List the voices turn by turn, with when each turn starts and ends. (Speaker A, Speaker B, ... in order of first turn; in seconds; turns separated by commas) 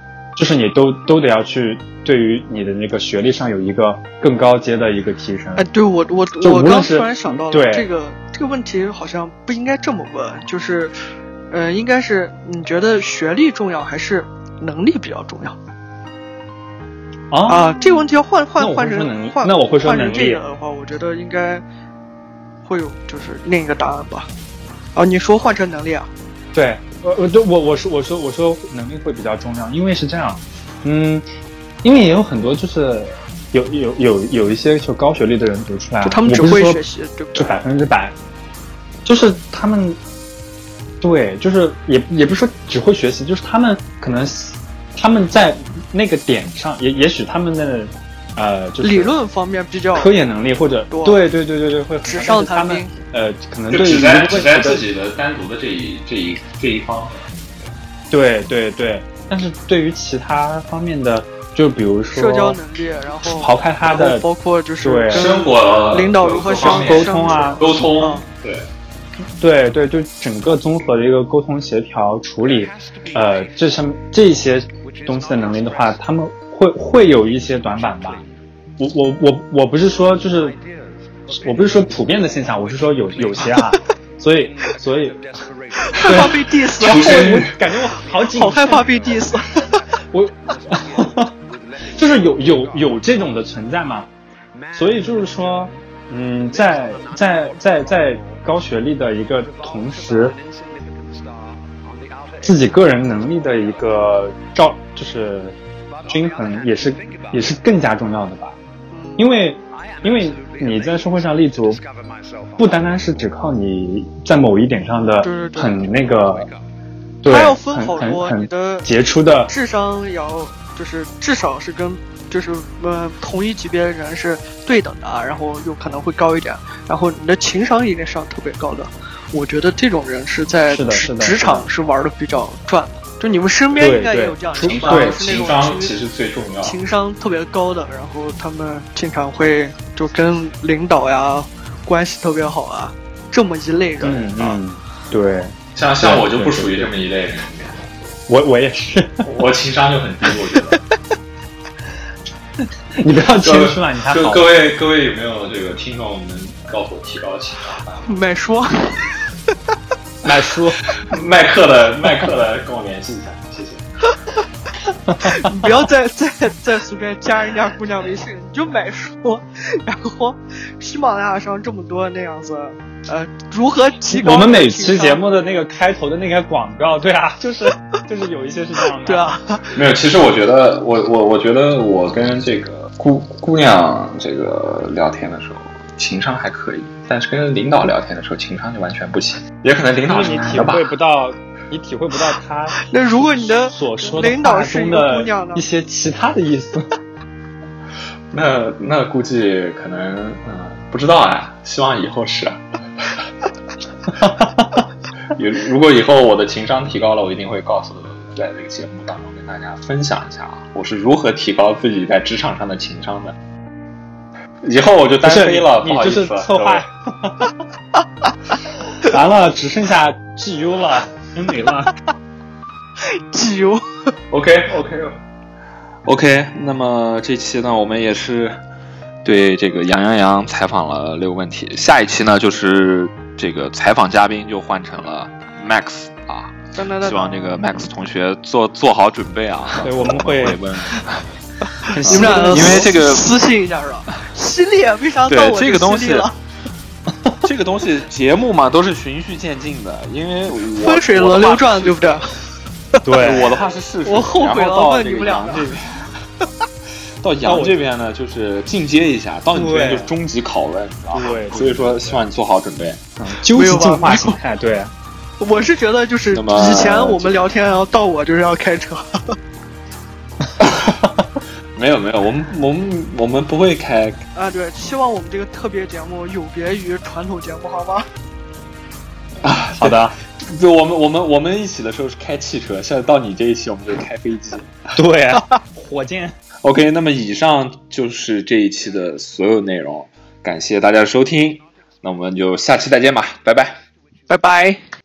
Speaker A: 0.3-5.7, Speaker B: 5.5-10.9, Speaker A: 6.4-7.9, Speaker B: 11.5-15.6, Speaker A: 17.3-17.7, Speaker B: 17.5-21.6, Speaker A: 18.6-20.4, Speaker B: 22.6-24.3, Speaker B: 24.9-26.1, Speaker A: 26.5-31.2, Speaker A: 31.8-36.8, Speaker B: 36.0-37.6, Speaker A: 37.3-38.1, Speaker A: 39.0-40.0, Speaker A: 41.0-49.1, Speaker B: 48.8-50.1, Speaker A: 49.9-54.8, Speaker B: 50.9-51.2, Speaker B: 52.0-52.9, Speaker C: 53.7-57.7, Speaker A: 58.1-62.6, Speaker B: 62.1-68.2, Speaker A: 63.2-64.2, Speaker A: 64.8-65.3, Speaker C: 65.1-68.7, Speaker A: 66.6-67.9, Speaker A: 69.4-78.2, Speaker A: 78.8-80.6, Speaker A: 81.4-85.2, Speaker B: 85.8-87.2, Speaker A: 86.0-88.9, Speaker C: 86.8-87.5, Speaker B: 88.3-89.6, Speaker A: 90.1-91.3, Speaker A: 91.8-94.1, Speaker A: 94.7-100.3, Speaker A: 102.4-108.5, Speaker B: 108.9-109.3, Speaker A: 109.2-111.8, Speaker A: 112.6-116.5, Speaker B: 115.2-115.8, Speaker A: 117.2-119.5, Speaker B: 117.2-118.9, Speaker B: 119.5-135.9, Speaker A: 130.7-131.7, Speaker A: 133.8-135.3, Speaker C: 134.6-136.8, Speaker B: 136.6-144.5, Speaker A: 144.0-146.9, Speaker C: 145.7-147.9, Speaker A: 148.3-149.3, Speaker C: 149.2-150.8, Speaker A: 152.9-154.4, Speaker C: 153.4-157.8, Speaker B: 158.1-159.1, Speaker A: 160.2-160.8, Speaker C: 161.0-163.8, Speaker A: 165.1-165.7, Speaker B: 165.2-175.2, Speaker A: 174.1-179.3, Speaker B: 179.0-179.7, Speaker C: 179.7-190.8, Speaker A: 190.0-192.8, Speaker B: 192.8-195.6, Speaker A: 193.3-196.9, Speaker C: 198.3-202.6, Speaker A: 204.2-204.8, Speaker C: 205.3-213.3, Speaker C: 214.6-216.8, Speaker A: 215.2-217.5, Speaker A: 219.0-221.9, Speaker B: 223.0-224.1, Speaker C: 224.3-225.2, Speaker C: 226.1-228.6, Speaker C: 229.2-241.2, Speaker B: 236.7-237.5, Speaker A: 239.8-240.6, Speaker B: 241.8-246.3, Speaker A: 241.9-242.9, Speaker C: 242.0-243.3, Speaker C: 245.3-246.3, Speaker C: 247.4-252.2, Speaker B: 250.8-252.3, Speaker A: 253.0-253.6, Speaker C: 253.2-256.1, Speaker B: 254.0-255.7, Speaker C: 257.2-263.0, Speaker A: 257.4-257.8, Speaker A: 259.5-260.1, Speaker A: 261.1-262.2, Speaker A: 263.2-264.9, Speaker B: 263.5-264.4, Speaker B: 265.4-269.4, Speaker C: 266.3-267.4, Speaker C: 271.8-274.2, Speaker B: 274.3-278.1, Speaker C: 279.4-284.8, Speaker A: 279.8-280.1, Speaker A: 284.9-286.4, Speaker C: 286.6-293.8, Speaker B: 294.3-294.8